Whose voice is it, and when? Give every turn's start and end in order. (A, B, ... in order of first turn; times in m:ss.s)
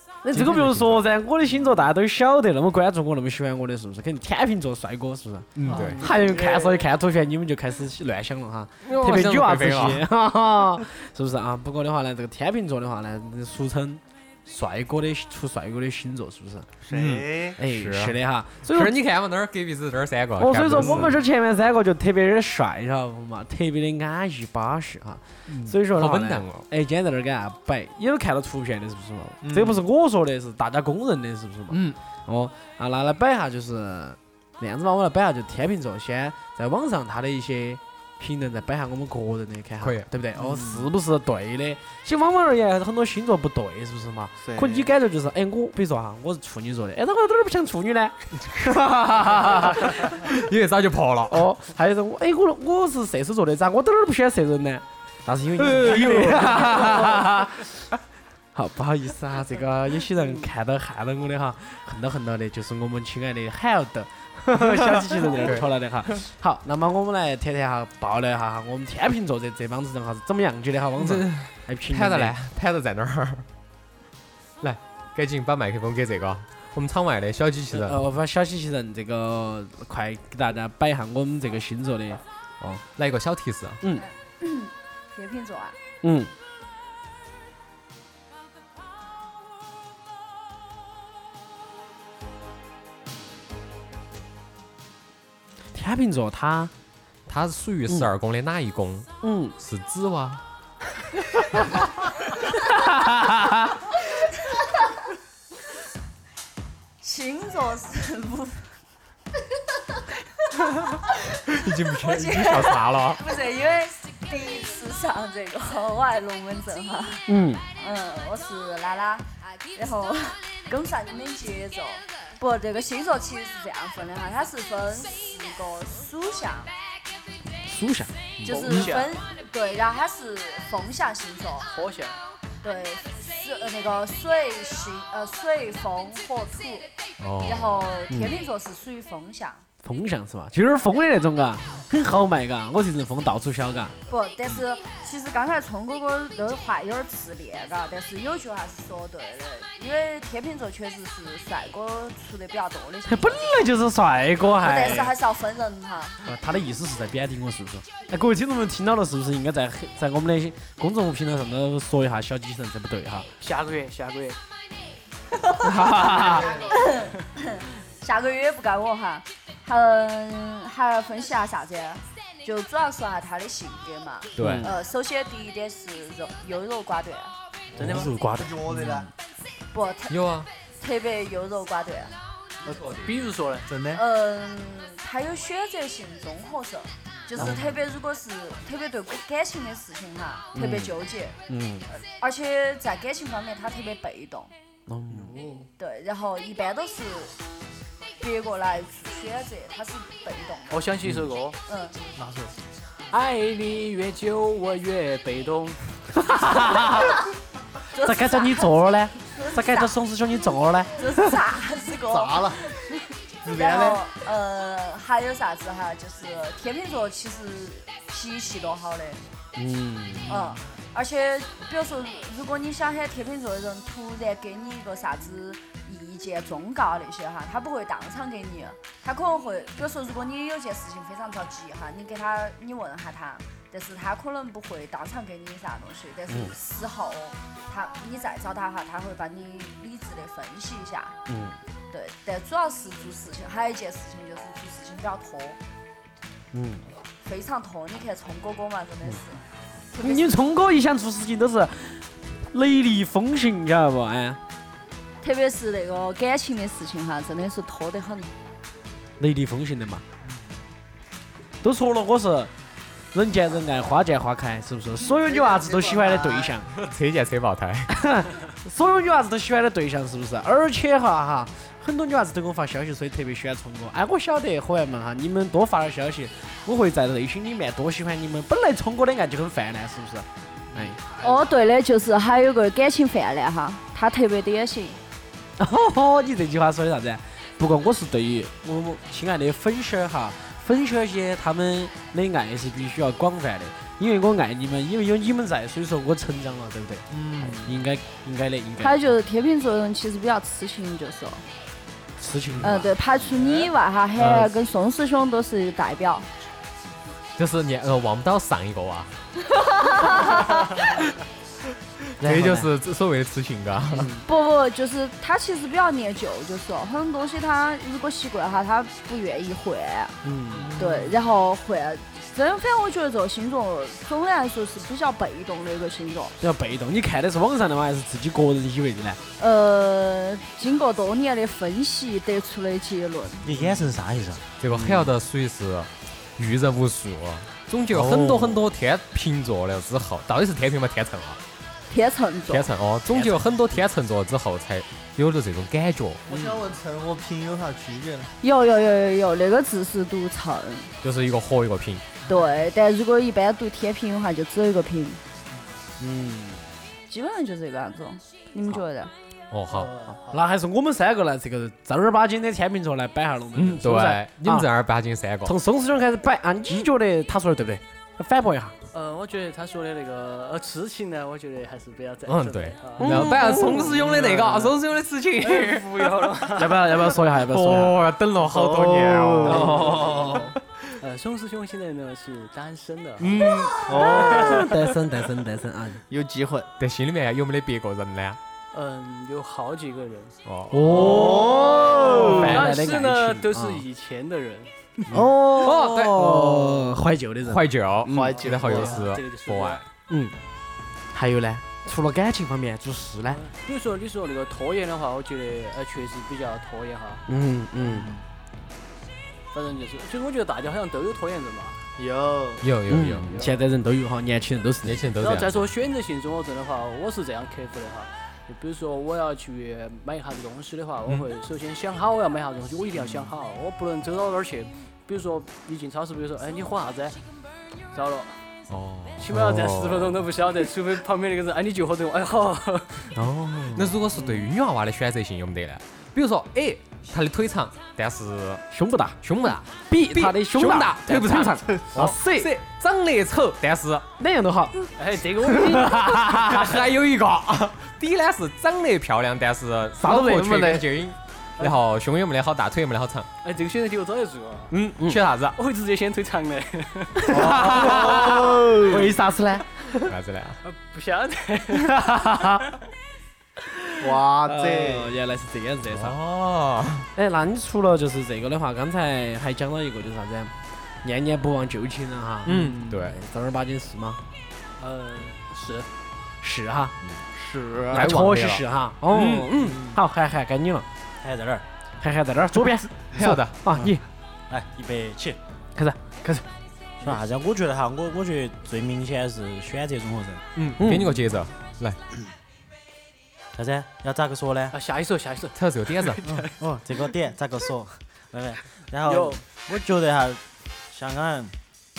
0:00.2-0:16.7 A
0:00.3-0:01.0 B
0:05.6-0:06.0 B
0:05.7-0:06.8 C
0:08.8-0:10.0 B
0:16.8-0:17.6 D
0:16.9-0:21.2 B
0:17.6-0:19.0 A
0:20.4-0:50.1 A
0:20.7-0:21.1 D
0:25.5-0:26.7 B
0:29.4-0:29.8 D
0:31.7-0:32.0 B
0:39.8-0:40.1 B
0:40.4-0:40.9 D
0:44.4-0:44.9 D
0:48.4-0:51.5 B
0:51.3-0:57.8 A
0:55.6-0:57.2 B
0:58.6-1:12.4 A
1:04.7-1:06.2 B
1:11.0-1:13.5 B
1:14.6-1:18.0 B
1:17.7-1:22.8 A
1:23.0-1:23.8 B
1:24.0-1:25.8 E
1:26.0-1:26.3 A
1:35.8-1:36.7 A
1:37.3-1:40.4 B
1:39.2-1:39.5 A
1:42.8-1:43.7 A
1:47.0-1:48.8 E
1:51.5-1:53.2 B
1:52.0-1:57.2 E
1:57.3-1:57.6 A
1:57.8-2:06.7 E
2:07.6-2:08.1 A
2:08.4-2:08.8 B
2:08.5-2:11.7 E
2:08.5-2:09.2 C
2:11.7-2:12.2 C
2:12.6-2:16.9 E
2:17.2-2:17.9 B
2:17.4-2:19.6 E
2:18.1-2:18.4 A
2:19.8-2:24.0 A
2:24.1-2:33.7 E
2:33.0-2:35.1 A
2:34.6-2:36.2 E
2:36.2-2:43.3 A
2:43.4-2:44.4 C
2:45.3-2:57.3 E
2:45.6-2:46.5 A
2:54.4-2:54.8 B
2:54.4-2:54.7 A
2:57.8-2:58.5 A
2:57.8-2:58.1 B
2:57.8-2:59.1 D
2:58.7-2:59.0 B
2:59.7-3:02.2 E
3:00.1-3:00.5 B
3:02.6-3:03.2 B
3:03.0-3:03.7 C
3:03.7-3:04.0 D
3:03.9-3:11.4 E
3:07.4-3:07.8 A
3:10.5-3:11.9 A
3:11.9-3:14.5 E
3:14.9-3:15.4 A
3:15.1-3:15.7 D
3:15.8-3:17.4 E
3:18.2-3:21.0 E
3:20.7-3:21.6 C
3:21.7-3:22.0 E
3:22.2-3:22.6 D
3:23.1-3:25.8 C
3:26.2-3:27.1 A
3:28.0-3:29.9 E
3:28.0-3:31.3 A
3:31.0-3:32.6 E
3:32.1-3:32.6 D
3:33.4-3:34.0 D
3:33.5-3:39.2 E
3:39.6-3:40.3 A
3:40.3-4:01.2 E
3:56.3-3:56.6 A
4:01.3-4:01.6 A
4:01.9-4:05.6 E
4:06.5-4:06.9 A
4:07.2-4:09.4 E
4:09.9-4:10.4 E
4:10.0-4:14.4 A
4:15.2-4:18.3 E
4:19.2-4:20.0 A
4:21.6-4:22.5 A
4:23.1-4:26.7 A
4:25.1-4:26.6 D
4:26.7-4:28.0 B
4:27.9-4:41.0 A
4:41.2-4:45.0 E
4:45.6-4:59.0 A
4:57.1-4:57.8 D
4:58.8-5:01.4 E
5:02.2-5:02.9 A
5:02.6-5:06.3 E
5:07.4-5:09.2 B
5:09.8-5:10.8 E
5:10.0-5:10.9 B
5:12.2-5:12.7 A
5:12.2-5:14.2 B
5:13.9-5:14.2 A
5:14.2-5:20.2 E
5:20.2-5:21.1 A
5:20.6-5:20.9 D
5:20.8-5:26.4 E
5:26.4-5:29.2 A
5:29.4-5:33.6 E
5:33.4-5:34.5 F
5:34.6-5:41.4 B
5:34.7-5:35.1 A
5:37.9-5:38.6 A
5:41.9-5:42.7 E
5:42.5-5:46.5 B
5:46.3-5:48.3 D
5:48.4-5:50.9 E
5:51.0-5:52.1 B
5:52.3-5:55.2 E
5:56.0-5:56.6 A
5:57.1-5:59.1 E
5:59.5-5:59.9 B
5:59.7-6:00.4 D
6:00.3-6:04.7 A
6:03.6-6:05.6 B
6:05.4-6:08.8 A
6:08.9-6:14.8 C
6:12.3-6:16.1 B
6:13.0-6:14.0 A
6:15.4-6:16.9 C
6:16.6-6:18.0 A
6:17.4-6:20.9 B
6:18.4-6:20.5 D
6:19.5-6:20.2 A
6:19.5-6:20.4 C
6:21.0-6:24.6 C
6:23.2-6:24.5 B
6:23.9-6:24.7 D
6:24.5-6:26.0 A
6:26.1-6:26.7 D
6:26.8-6:28.4 B
6:28.7-6:30.4 C
6:30.4-6:31.4 B
6:30.7-6:33.8 A
6:30.9-6:32.6 D
6:32.3-6:32.8 B
6:32.3-6:34.7 C
6:35.1-6:37.6 A
6:35.5-6:39.8 B
6:38.0-6:39.1 D
6:38.1-6:39.8 C
6:40.1-6:40.4 A
6:41.1-6:43.4 A
6:43.3-6:47.2 C
6:47.3-6:48.1 A
6:47.8-6:48.2 D
6:49.5-6:51.8 C
6:52.0-6:52.7 D
6:52.6-6:53.4 B
6:52.9-6:55.1 A
6:54.8-6:55.6 B
6:55.2-7:07.2 C
7:07.9-7:08.4 C
7:08.7-7:10.2 B
7:09.2-7:13.1 C
7:13.2-7:14.0 A
7:13.7-7:18.6 B
7:18.7-7:19.2 A
7:19.2-7:24.1 B
7:19.9-7:22.5 A
7:24.2-7:24.9 A
7:25.0-7:26.4 C
7:25.8-7:33.3 B
7:30.0-7:30.9 A
7:33.4-7:34.7 C
7:34.7-7:35.2 A
7:34.7-7:35.6 B
7:35.6-7:37.3 C
7:37.2-7:40.1 A
7:37.3-7:39.1 D
7:40.0-7:40.6 B
7:40.6-7:42.0 C
7:41.9-7:42.6 A
7:43.8-7:46.2 A
7:44.0-7:45.2 D
7:45.9-7:47.1 B
7:47.2-7:54.2 A
7:52.5-7:53.2 B
7:52.5-7:53.0 D
7:54.8-7:55.9 C
7:56.4-7:57.0 A
7:57.3-7:58.1 D
7:57.9-7:59.6 B
7:57.9-8:00.9 A
7:59.6-8:00.0 D
8:01.2-8:01.7 F
8:02.0-8:04.0 A
8:03.2-8:03.9 B
8:04.5-8:05.4 F
8:07.0-8:10.4 F
8:10.6-8:12.0 B
8:10.8-8:11.2 A
8:13.6-8:14.8 F
8:14.7-8:16.5 C
8:15.5-8:16.2 B
8:16.2-8:21.6 F
8:19.0-8:19.4 C